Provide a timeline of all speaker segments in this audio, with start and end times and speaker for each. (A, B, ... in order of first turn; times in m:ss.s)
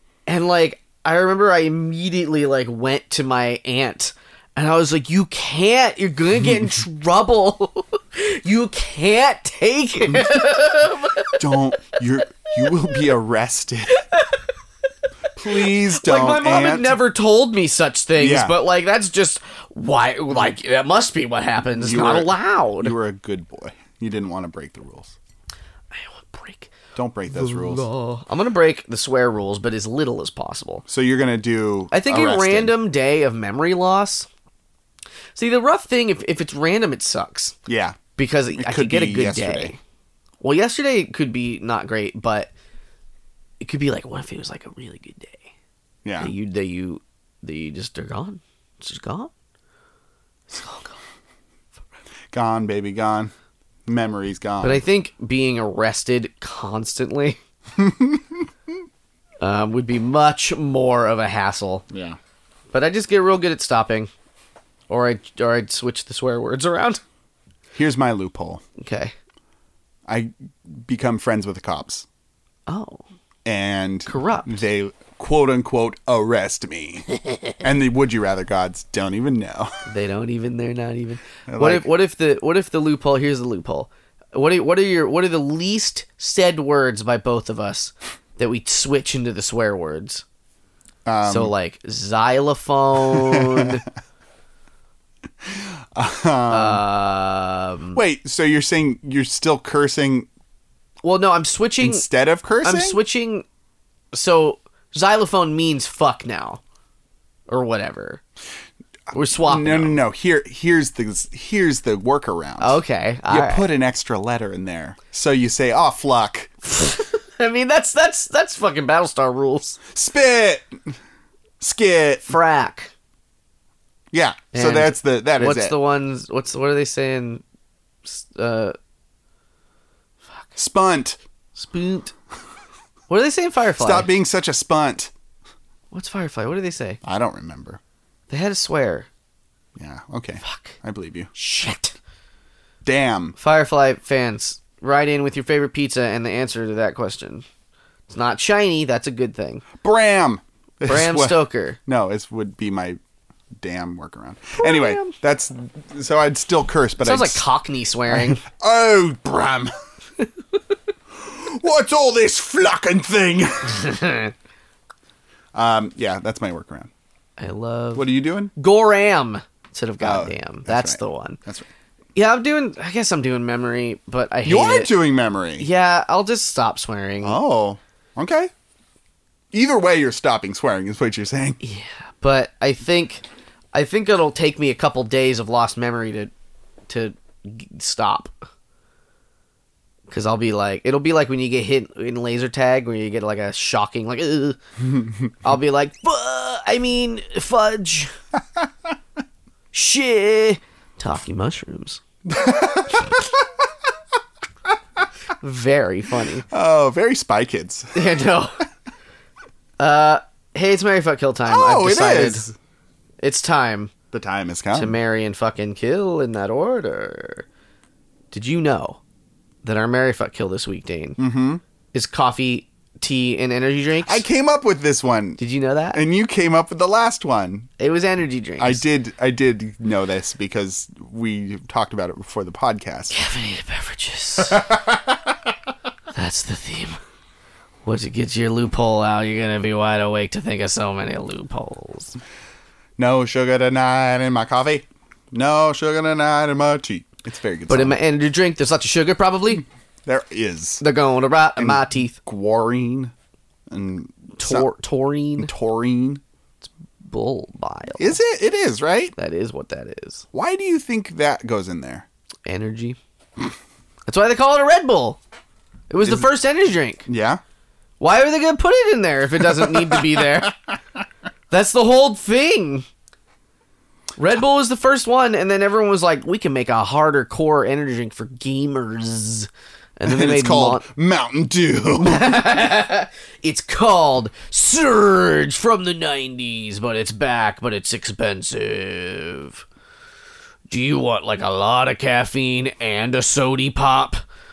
0:00.2-0:11.4 A
0:10.1-0:10.4 B
0:11.4-0:14.0 B
0:12.6-0:13.0 A
0:14.1-0:14.4 A
0:15.4-0:17.0 B
0:15.5-0:22.9 A
0:18.2-0:18.6 B
0:21.8-0:25.2 B
0:25.9-0:26.7 A
0:26.9-0:27.9 B
0:27.3-0:30.8 A
0:30.9-0:32.8 B
0:31.9-0:34.3 A
0:35.3-0:37.6 A
0:37.7-0:38.0 B
0:38.2-0:39.8 A
0:38.5-0:39.7 B
0:40.4-0:42.5 A
0:43.6-0:45.5 A
0:46.0-0:46.3 B
0:46.2-0:49.3 A
0:50.5-0:51.0 A
0:52.3-0:53.3 B
0:53.9-0:54.8 B
0:54.6-0:57.4 A
0:57.8-0:58.2 B
0:59.4-1:01.8 A
1:01.9-1:02.2 B
1:02.7-1:04.1 A
1:04.9-1:07.0 A
1:07.7-1:08.6 B
1:08.8-1:09.1 A
1:10.1-1:12.0 B
1:12.7-1:13.0 A
1:13.4-1:19.8 B
1:14.0-1:14.6 A
1:19.9-1:30.2 A
1:21.5-1:21.9 B
1:31.0-1:31.5 B
1:31.2-1:33.8 A
1:33.1-1:33.7 B
1:35.4-1:36.8 B
1:36.5-1:38.0 A
1:37.9-1:40.3 B
1:41.0-1:42.0 A
1:41.8-1:43.0 B
1:42.6-1:43.4 A
1:44.1-1:46.6 A
1:47.5-1:48.2 A
1:49.1-1:50.0 A
1:49.4-1:56.6 B
1:52.6-1:53.7 A
1:56.6-1:59.8 A
1:59.9-2:00.9 B
2:01.6-2:02.3 B
2:02.3-2:02.9 A
2:04.1-2:05.8 B
2:04.5-2:07.4 A
2:08.0-2:08.8 A
2:10.6-2:11.2 B
2:11.6-2:12.1 A
2:13.1-2:14.1 A
2:13.8-2:15.1 B
2:15.9-2:17.0 A
2:17.0-2:17.8 B
2:18.3-2:19.1 A
2:19.8-2:21.3 B
2:20.4-2:20.8 A
2:21.3-2:21.9 A
2:22.8-2:23.4 B
2:23.4-2:27.4 A
2:28.1-2:29.6 A
2:29.8-2:33.0 B
2:30.9-2:31.8 A
2:33.6-2:37.4 B
2:34.6-2:35.1 A
2:37.0-2:38.4 A
2:38.1-2:39.7 B
2:41.1-2:44.0 B
2:43.7-2:44.3 A
2:45.5-2:46.9 B
2:47.4-2:51.4 A
2:47.9-2:48.5 B
2:50.0-2:51.7 B
2:52.1-2:54.9 A
2:54.4-2:55.7 B
2:55.6-2:57.4 A
2:57.2-2:58.5 B
2:59.5-3:01.6 B
3:01.6-3:06.3 A
3:06.9-3:08.4 A
3:10.1-3:14.6 A
3:15.4-3:18.1 A
3:19.7-3:22.0 A
3:22.3-3:23.2 B
3:25.4-3:26.4 A
3:26.5-3:28.0 B
3:27.9-3:28.6 A
3:29.8-3:32.5 A
3:31.5-3:32.5 B
3:33.2-3:33.9 A
3:34.1-3:35.0 B
3:34.7-3:37.4 A
3:38.3-3:39.0 A
3:39.6-3:41.2 A
3:41.2-3:41.6 B
3:41.9-3:44.2 A
3:44.0-3:45.4 B
3:45.4-3:46.0 A
3:45.9-3:47.7 B
3:47.8-3:48.8 A
3:48.6-3:53.2 B
3:53.1-3:54.6 A
3:54.5-3:55.3 B
3:56.1-3:57.0 A
3:57.8-4:02.2 A
4:03.0-4:08.0 B
4:07.7-4:09.6 A
4:10.0-4:10.8 B
4:10.8-4:12.2 A
4:11.6-4:13.1 B
4:13.7-4:14.7 B
4:14.4-4:15.5 A
4:15.4-4:16.2 B
4:16.6-4:18.2 A
4:18.0-4:19.1 B
4:19.2-4:20.2 A
4:20.3-4:22.0 B
4:22.4-4:23.0 A
4:24.0-4:25.2 A
4:25.9-4:27.0 A
4:27.0-4:27.4 B
4:28.0-4:30.6 A
4:31.5-4:32.8 A
4:34.2-4:40.8 A
4:40.1-4:42.3 B
4:42.0-4:49.6 A
4:50.7-4:54.2 A